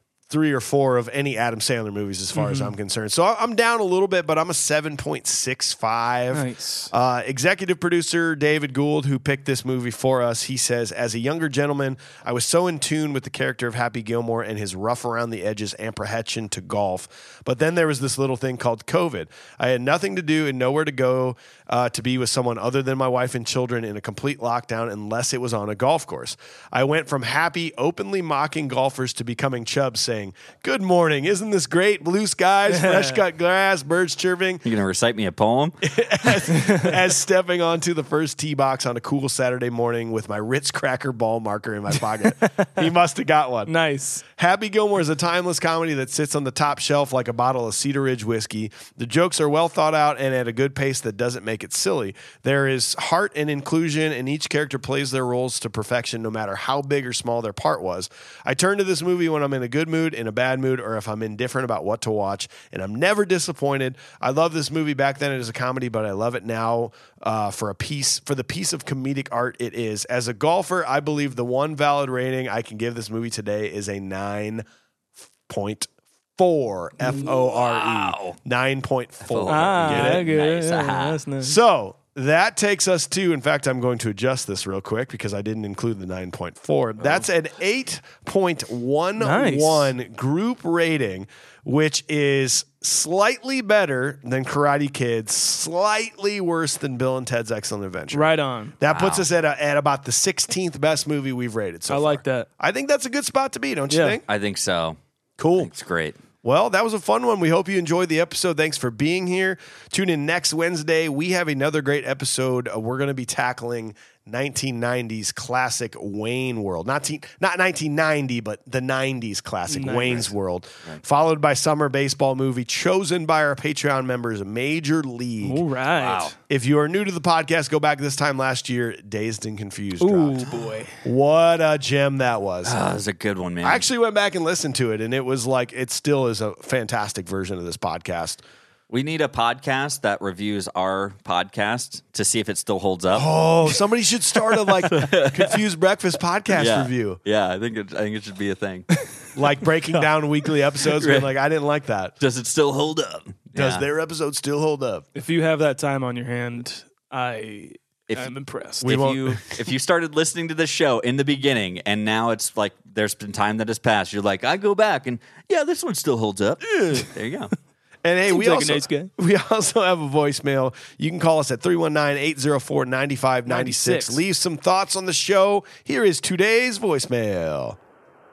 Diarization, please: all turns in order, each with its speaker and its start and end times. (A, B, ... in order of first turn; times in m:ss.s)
0:00.3-0:34.6 A
0:02.3-0:02.7 B
0:06.3-0:06.9 B
0:32.7-0:33.2 B
0:34.6-0:36.3 C
0:35.8-0:43.7 A
0:36.5-0:36.9 B
0:42.3-0:42.8 B
0:43.7-0:44.2 B
0:44.4-1:14.6 A
1:15.5-1:20.2 A
1:17.2-1:18.4 C
1:19.2-1:21.2 C
1:19.5-1:21.6 B
1:21.4-1:44.2 A
1:29.2-1:29.9 B
1:38.1-1:38.7 B
1:38.9-1:39.2 C
1:41.9-1:42.5 B
1:43.9-1:44.2 B
1:44.3-1:45.0 C
1:45.4-1:45.7 A
1:45.6-1:46.2 C
1:46.4-2:05.6 A
1:59.7-2:00.3 B
2:05.4-2:06.3 B
2:05.9-2:06.3 C
2:06.5-2:10.5 A
2:10.0-2:10.9 B
2:11.0-2:12.8 A
2:12.6-2:13.8 C
2:13.6-2:18.4 A
2:18.9-2:23.3 C
2:23.1-2:27.2 A
2:24.6-2:25.6 C
2:26.5-2:28.9 C
2:29.3-2:32.2 A
2:31.0-2:31.3 C
2:32.2-2:33.8 C
2:33.5-2:35.0 A
2:35.1-2:39.4 B
2:38.1-2:47.5 C
2:38.8-2:39.4 A
2:48.0-2:57.8 A
2:48.3-2:49.1 B
2:53.5-2:54.2 B